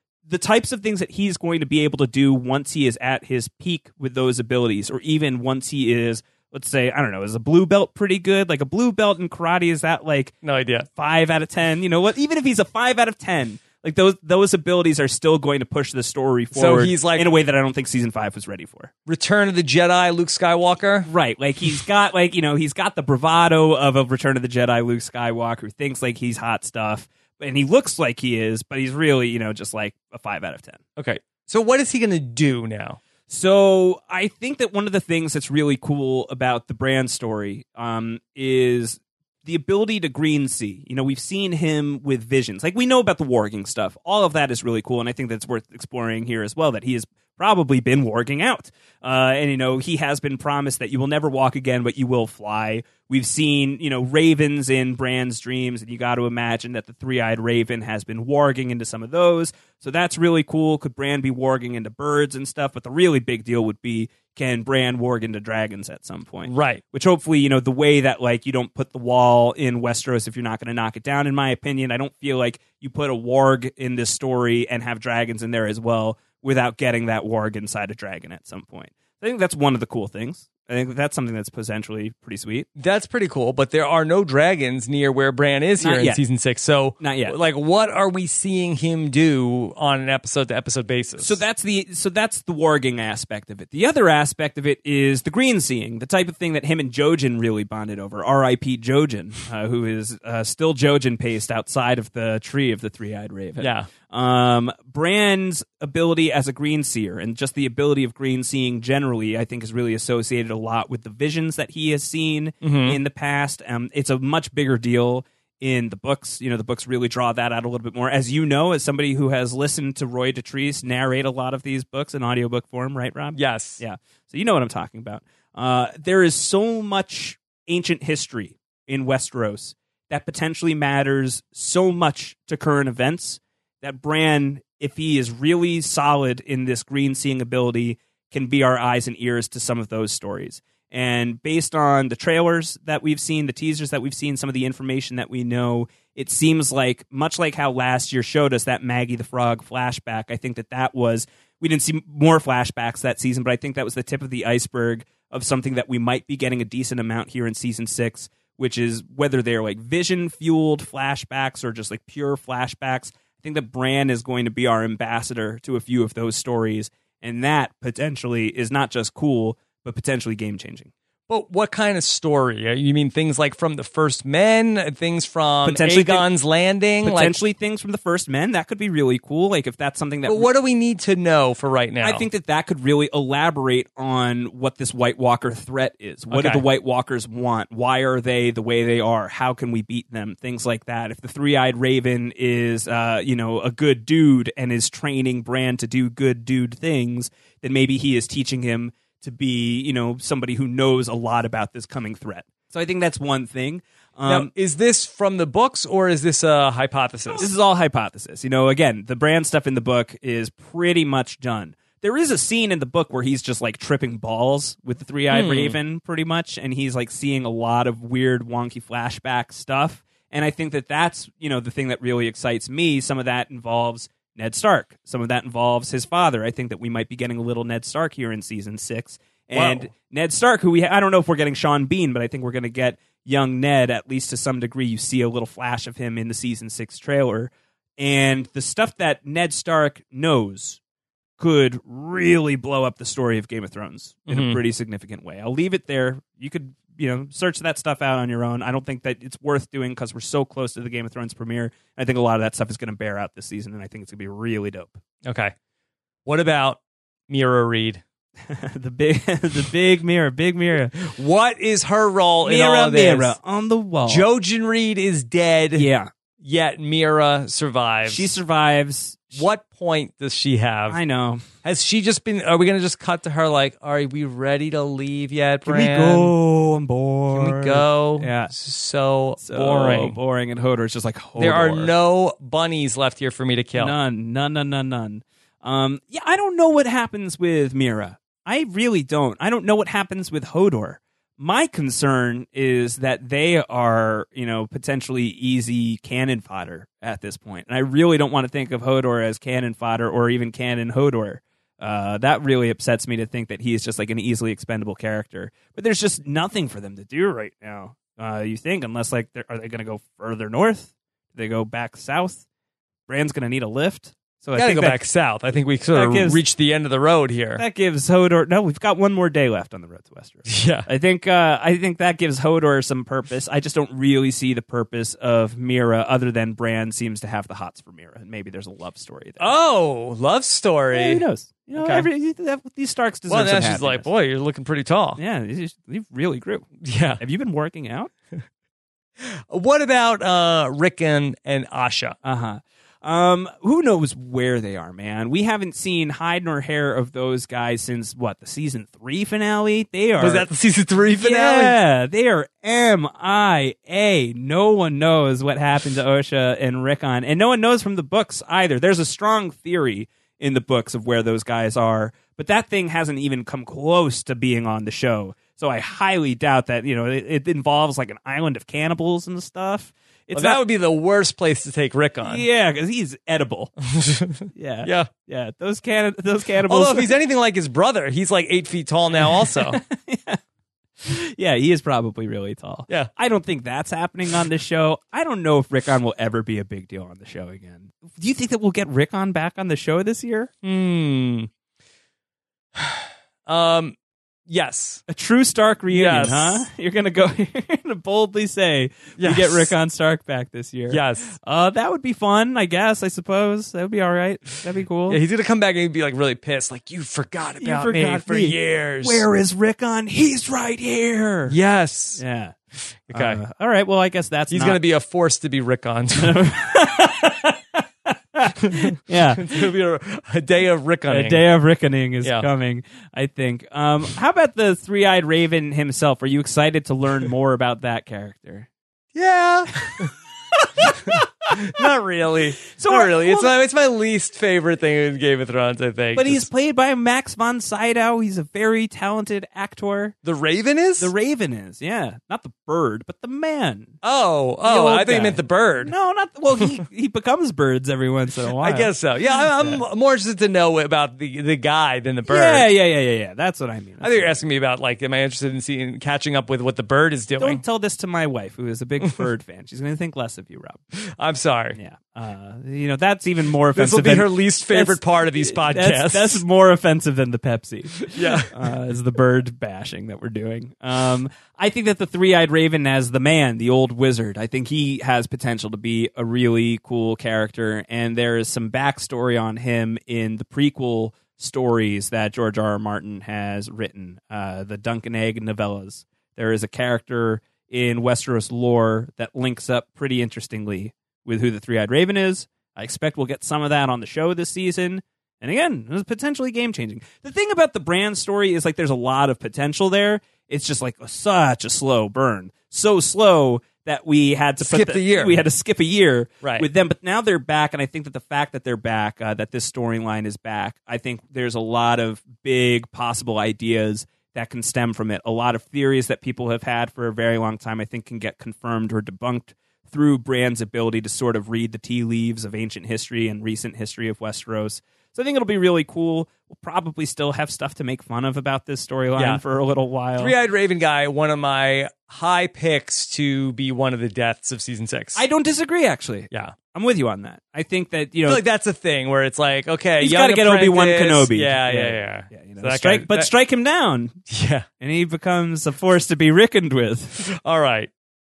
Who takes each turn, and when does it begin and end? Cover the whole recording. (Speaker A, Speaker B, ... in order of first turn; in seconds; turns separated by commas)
Speaker A: 0.3-10.3, Speaker B: 10.4-10.9, Speaker A: 10.9-18.9, Speaker B: 16.5-17.3, Speaker B: 19.1-21.1, Speaker A: 21.0-30.8, Speaker B: 30.9-33.0, Speaker A: 33.3-82.7, Speaker B: 66.5-66.8, Speaker B: 82.8-91.4, Speaker A: 85.8-86.2, Speaker A: 87.0-87.3, Speaker A: 91.2-170.9, Speaker B: 103.6-103.9, Speaker B: 112.6-113.0, Speaker B: 123.3-123.8, Speaker B: 171.3-177.4, Speaker A: 175.6-176.3, Speaker A: 177.0-180.5, Speaker B: 180.2-182.3, Speaker A: 182.0-204.5, Speaker B: 186.3-186.6, Speaker B: 204.2-207.5, Speaker A: 207.3-240.8, Speaker B: 215.3-215.8, Speaker B: 229.5-229.9, Speaker A: 241.4-255.0, Speaker B: 244.3-244.6, Speaker B: 255.2-255.5, Speaker B: 256.2-258.0, Speaker A: 258.5-260.9, Speaker B: 261.0-263.3, Speaker A: 262.4-264.2, Speaker B: 264.0-265.9, Speaker A: 265.7-266.1, Speaker B: 266.4-268.3, Speaker A: 268.1-269.4, Speaker B: 269.3-271.0, Speaker A: 270.9-271.4, Speaker B: 271.6-276.3, Speaker A: 275.6-278.5, Speaker B: 277.3-280.2, Speaker A: 279.4-281.9, Speaker B: 281.4-284.0, Speaker A: 283.7-312.4, Speaker A: 313.1-315.0, Speaker B: 314.5-317.6, Speaker A: 315.9-316.4, Speaker A: 317.6-329.5, Speaker B: 320.5-320.9, Speaker B: 329.4-332.1, Speaker A: 330.9-334.1, Speaker B: 333.3-335.2, Speaker A: 335.1-336.7, Speaker B: 336.8-337.2, Speaker A: 337.2-338.1, Speaker B: 339.5-342.2, Speaker A: 342.2-350.5, Speaker B: 350.2-351.8, Speaker A: 351.1-370.6, Speaker B: 370.3-372.4, Speaker A: 372.2-373.7, Speaker B: 373.8-375.1, Speaker A: 374.5-377.1, Speaker B: 376.6-379.8, Speaker A: 379.2-380.4, Speaker A: 381.0-390.5, Speaker B: 390.6-391.5, Speaker B: 392.8-393.9, Speaker B: 394.5-395.0, Speaker A: 395.1-405.2, Speaker B: 395.9-396.6, Speaker B: 399.2-399.7, Speaker B: 400.9-401.3, Speaker B: 405.1-409.2, Speaker A: 407.6-411.5, Speaker B: 411.5-412.2, Speaker A: 412.2-412.6, Speaker B: 413.1-413.4, Speaker A: 413.1-414.8, Speaker B: 414.5-416.4, Speaker A: 416.1-419.7, Speaker B: 419.4-421.4, Speaker A: 421.1-428.7, Speaker B: 429.1-430.1, Speaker A: 430.6-431.9, Speaker B: 430.9-436.5, Speaker A: 432.7-433.5, Speaker A: 436.1-440.1, Speaker B: 440.2-441.1, Speaker A: 441.0-443.9, Speaker B: 444.0-445.9, Speaker A: 444.6-449.8, Speaker B: 448.6-452.7, Speaker A: 452.2-454.4, Speaker B: 454.0-457.6, Speaker A: 457.4-460.8, Speaker B: 461.0-461.8, Speaker A: 461.7-530.3, Speaker B: 463.7-466.4, Speaker B: 468.1-468.5, Speaker B: 504.6-505.4, Speaker B: 530.2-535.2, Speaker A: 535.1-538.4, Speaker B: 538.2-543.3, Speaker A: 540.0-544.2, Speaker B: 544.3-544.6, Speaker A: 544.8-547.2, Speaker B: 547.2-547.9